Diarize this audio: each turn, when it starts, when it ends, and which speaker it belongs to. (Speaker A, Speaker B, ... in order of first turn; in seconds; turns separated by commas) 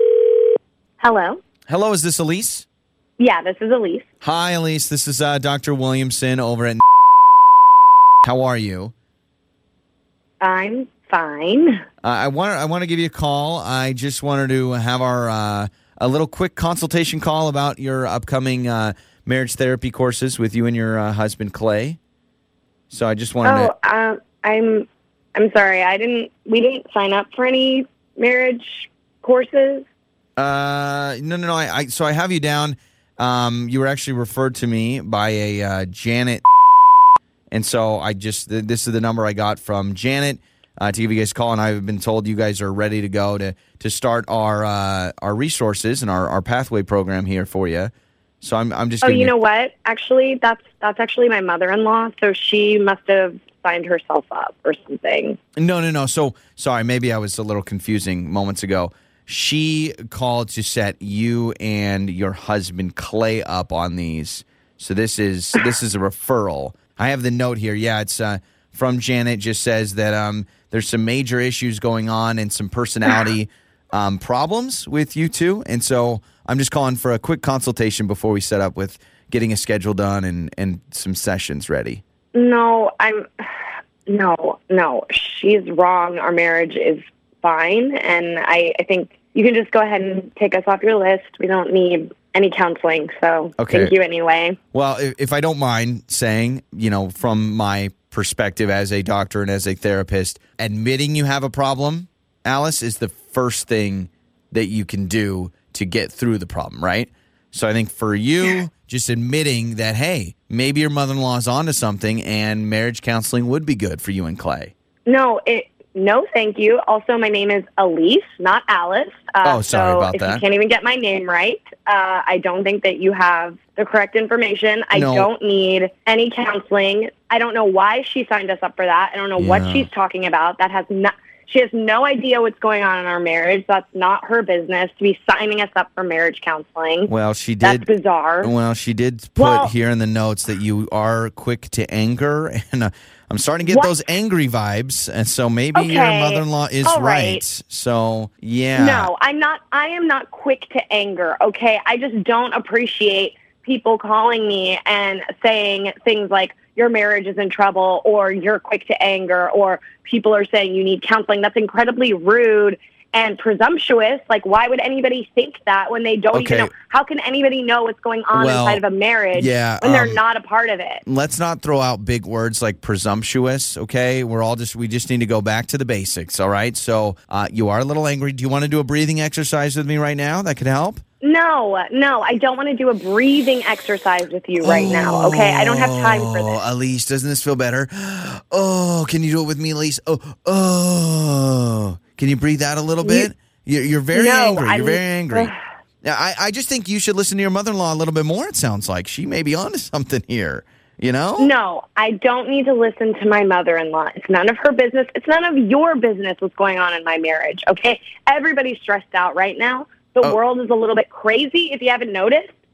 Speaker A: 1.0-1.4, Speaker B: 1.7-2.6, Speaker A: 3.2-4.1, Speaker B: 4.2-6.8, Speaker B: 8.2-8.9, Speaker A: 10.4-11.8, Speaker B: 12.0-22.0, Speaker B: 22.9-23.7, Speaker A: 23.4-29.9, Speaker B: 30.4-36.4, Speaker B: 37.5-49.3, Speaker A: 49.0-55.4, Speaker B: 55.6-82.0, Speaker A: 82.3-83.5, Speaker A: 84.1-94.6, Speaker B: 93.6-93.9, Speaker B: 94.7-114.7, Speaker A: 115.1-137.1, Speaker B: 119.4-120.4, Speaker B: 124.9-125.3, Speaker B: 129.4-129.9, Speaker B: 137.1-137.9, Speaker A: 137.6-138.5, Speaker B: 138.4-149.1, Speaker A: 139.4-139.7, Speaker A: 143.7-144.0, Speaker A: 145.7-147.4, Speaker A: 148.8-171.0, Speaker B: 166.3-166.7, Speaker B: 168.3-168.8, Speaker B: 169.3-170.2, Speaker B: 171.1-181.0, Speaker A: 181.2-186.6, Speaker B: 184.6-195.5, Speaker A: 193.0-193.3, Speaker A: 194.1-195.5, Speaker B: 196.0-201.5, Speaker A: 201.4-212.6